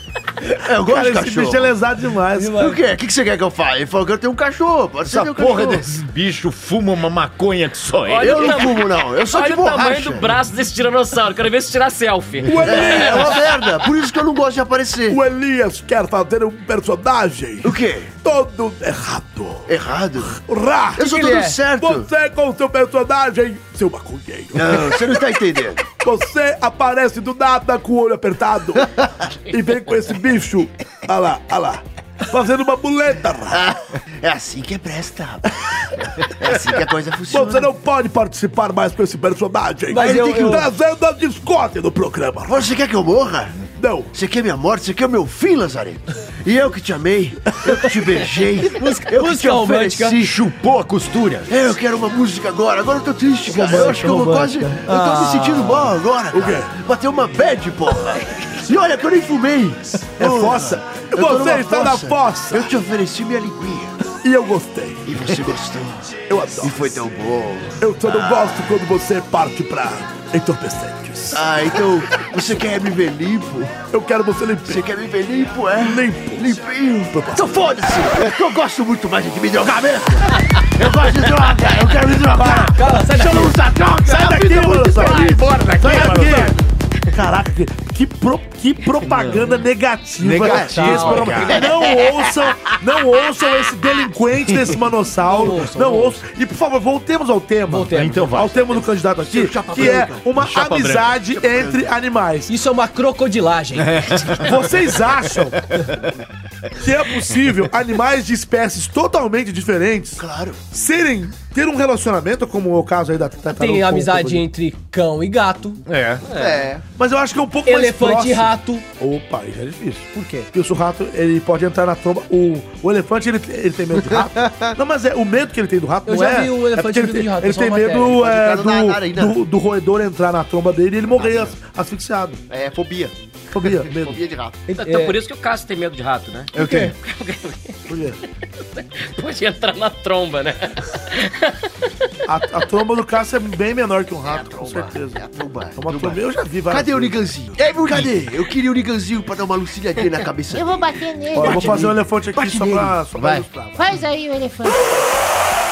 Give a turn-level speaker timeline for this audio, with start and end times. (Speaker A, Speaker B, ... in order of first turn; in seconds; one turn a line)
Speaker A: 0.6-1.8
Speaker B: 0.8-2.6
Speaker C: 2.3-2.8
Speaker A: 2.5-5.8
Speaker D: 5.0-8.6
Speaker E: 8.1-13.3
Speaker A: 8.2-10.3
Speaker B: 12.4-13.4
Speaker A: 12.6-15.2
Speaker B: 15.1-19.7
Speaker A: 17.6-18.1
Speaker A: 19.7-20.4
Speaker B: 20.3-25.2
Speaker A: 20.9-22.1
Speaker C: 21.0-21.6
Speaker A: 24.5-25.9
Speaker B: 26.0-28.9
Speaker A: 28.8-29.1
Speaker B: 29.5-33.6
Speaker A: 33.5-37.7
Speaker B: 37.3-42.7
Speaker C: 39.9-40.7
Speaker A: 39.9-40.6
Speaker A: 42.5-43.6
Speaker B: 43.7-44.1
Speaker A: 44.1-50.4
Speaker C: 48.6-50.2
Speaker D: 50.2-51.5
Speaker A: 51.5-64.0
Speaker B: 53.5-56.7
Speaker B: 60.2-62.7
Speaker B: 64.2-65.5
Speaker A: 65.1-68.8
Speaker B: 66.3-67.0
Speaker B: 67.8-71.5
Speaker A: 71.3-73.8
Speaker B: 73.9-74.8
Speaker A: 74.7-85.5
Speaker B: 75.8-76.6
Speaker B: 77.1-77.7
Speaker B: 82.2-82.8
Speaker C: 82.7-83.6
Speaker B: 84.0-86.6
Speaker D: 84.9-86.6
Speaker B: 87.1-102.5
Speaker D: 89.0-89.4
Speaker D: 90.2-91.8
Speaker A: 90.4-92.8
Speaker C: 90.6-91.5
Speaker C: 95.2-96.2
Speaker C: 97.7-98.5
Speaker D: 97.9-98.8
Speaker A: 99.2-100.4
Speaker D: 100.4-101.1
Speaker A: 101.3-101.9
Speaker C: 102.5-104.4
Speaker D: 103.8-104.5
Speaker B: 104.4-105.6
Speaker D: 105.7-106.1
Speaker B: 106.8-114.5
Speaker A: 110.2-110.6
Speaker C: 113.5-115.8
Speaker D: 115.9-116.2
Speaker E: 116.2-116.7
Speaker A: 116.3-116.8
Speaker B: 116.9-132.4
Speaker C: 117.7-118.8
Speaker C: 120.1-120.5
Speaker A: 123.9-124.8
Speaker C: 126.1-128.2
Speaker A: 128.1-129.4
Speaker A: 131.2-131.5
Speaker A: 132.5-134.6
Speaker B: 133.5-134.2
Speaker C: 134.7-135.2
Speaker E: 134.7-137.8
Speaker D: 136.5-136.9
Speaker C: 136.6-136.9
Speaker B: 137.9-138.2
Speaker E: 138.6-141.7
Speaker B: 142.3-145.2
Speaker A: 144.2-151.9
Speaker B: 145.8-147.2
Speaker F: 150.6-151.9
Speaker B: 151.3-153.9
Speaker A: 152.4-152.9
Speaker D: 153.2-153.4
Speaker F: 153.8-154.8